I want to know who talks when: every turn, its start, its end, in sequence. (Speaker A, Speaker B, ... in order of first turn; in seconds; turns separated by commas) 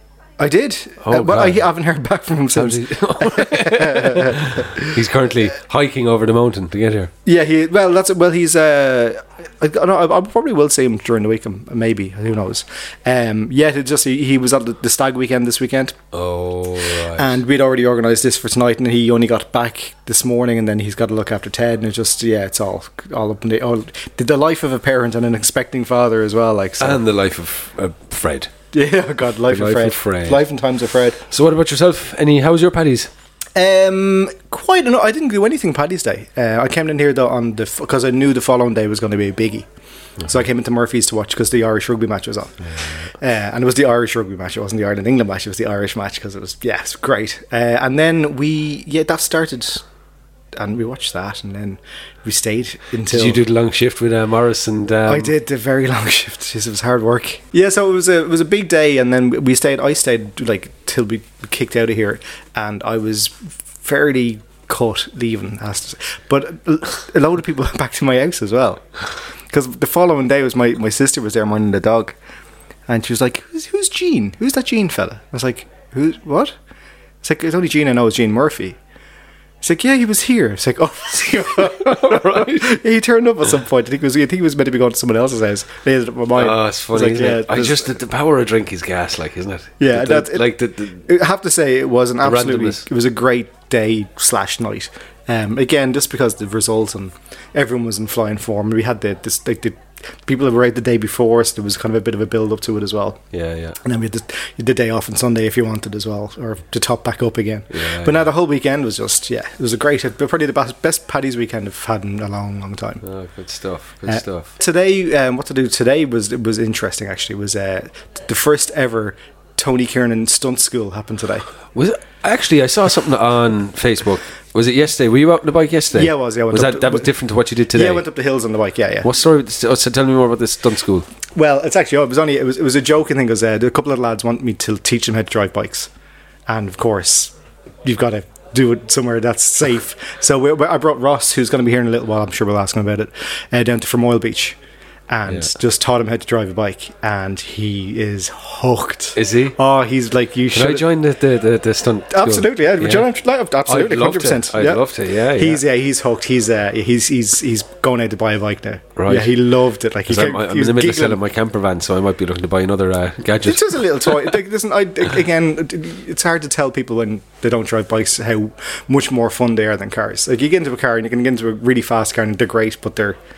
Speaker A: 0.4-5.0, Speaker B: 1.0-1.7, Speaker B: 2.5-7.1, Speaker A: 7.2-16.0, Speaker B: 16.1-17.4, Speaker A: 17.2-27.0, Speaker B: 26.8-28.5, Speaker A: 28.7-31.2, Speaker B: 29.5-30.4, Speaker B: 31.3-33.1, Speaker A: 33.5-39.7, Speaker A: 40.2-42.6, Speaker B: 42.6-43.1, Speaker A: 43.2-49.8, Speaker A: 50.5-53.4, Speaker B: 53.1-55.4, Speaker A: 55.1-68.9, Speaker A: 69.5-72.2, Speaker A: 72.9-76.5, Speaker A: 77.2-78.8, Speaker A: 79.6-87.9, Speaker B: 81.2-82.8, Speaker B: 86.3-91.1, Speaker A: 89.8-103.2, Speaker B: 92.2-92.9, Speaker B: 103.3-103.8, Speaker A: 103.8-113.0, Speaker B: 107.7-108.3, Speaker B: 113.0-114.5, Speaker A: 114.0-121.5, Speaker B: 121.7-128.1, Speaker A: 125.9-127.1, Speaker A: 127.7-129.1, Speaker B: 129.0-131.1, Speaker A: 131.3-135.9, Speaker A: 136.5-144.6, Speaker A: 145.1-150.9, Speaker B: 145.3-145.5, Speaker B: 149.2-149.6, Speaker B: 150.5-153.1, Speaker A: 152.1-161.2, Speaker B: 153.7-155.6, Speaker B: 159.0-159.4, Speaker B: 160.1-164.4, Speaker A: 163.4-173.2